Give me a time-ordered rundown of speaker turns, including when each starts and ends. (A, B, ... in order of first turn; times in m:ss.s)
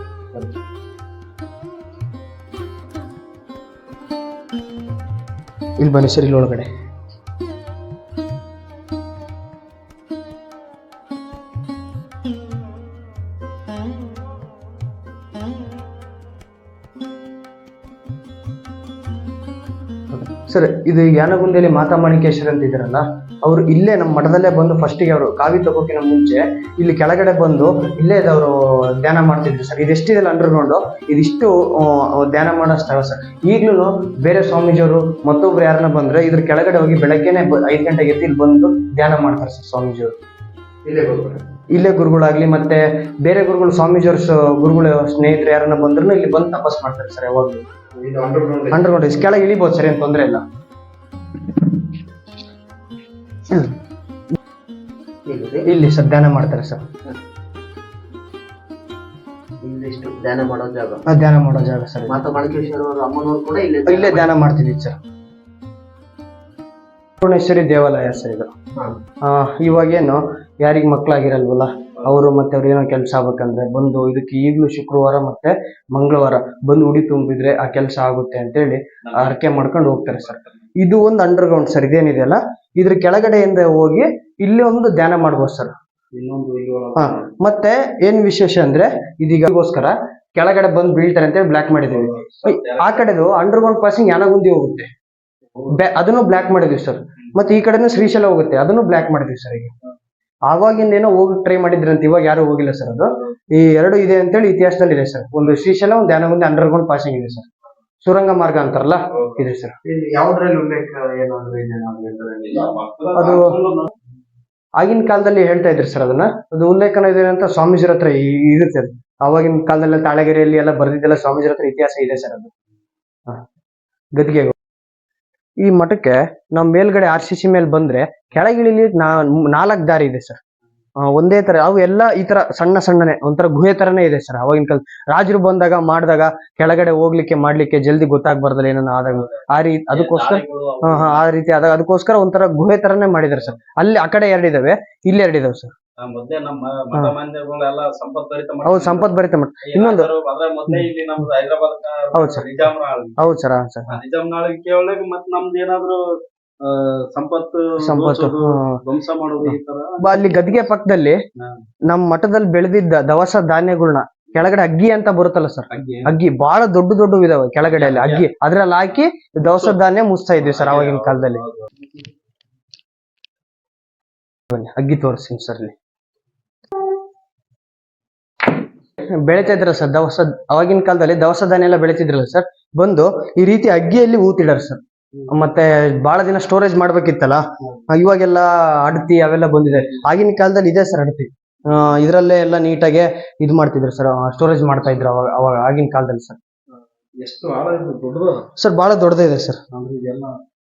0:05.8-0:06.7 A
0:20.1-0:40.2 A
0:40.9-0:41.4 B
0:41.7-0:47.6 A
0:48.0-0:48.8 B
0:48.7-0:50.4 A
0:55.3-0:55.7 B
0:55.6-0:56.8 A
0:59.6-1:01.0 B
1:01.1-1:02.3 A
1:02.1-1:04.3 B
1:03.9-1:05.0 A
1:07.2-1:08.6 A
1:09.2-1:25.7 A
1:19.1-1:19.4 C
1:20.2-1:20.7 C
1:26.1-1:27.3 C
1:27.0-1:34.9 A
1:31.9-1:33.2 C
1:35.7-1:39.7 A
1:40.5-1:47.5 A
1:48.0-1:49.9 A
1:49.2-1:49.4 C
1:49.9-1:52.4 B
1:52.4-1:53.9 C
1:53.2-1:53.6 A
1:54.8-2:02.5 A
2:04.2-2:04.5 A
2:05.6-2:10.4 A
2:11.0-2:25.7 A
2:19.9-2:21.2 C
2:26.0-2:33.2 C
2:28.6-2:30.1 A
2:32.1-2:32.5 A
2:33.2-2:34.0 A
2:33.9-2:40.7 C
2:37.8-2:38.8 A
2:39.4-2:41.2 A
2:41.4-2:41.6 C
2:41.9-2:51.4 A
2:45.7-2:46.2 C
2:47.7-2:48.3 C
2:49.5-2:49.8 C
2:50.4-2:51.9 C
2:54.5-2:55.8 A
2:59.2-3:16.4 A
3:17.2-3:18.5 C
3:18.6-3:19.6 A
3:19.7-3:20.4 C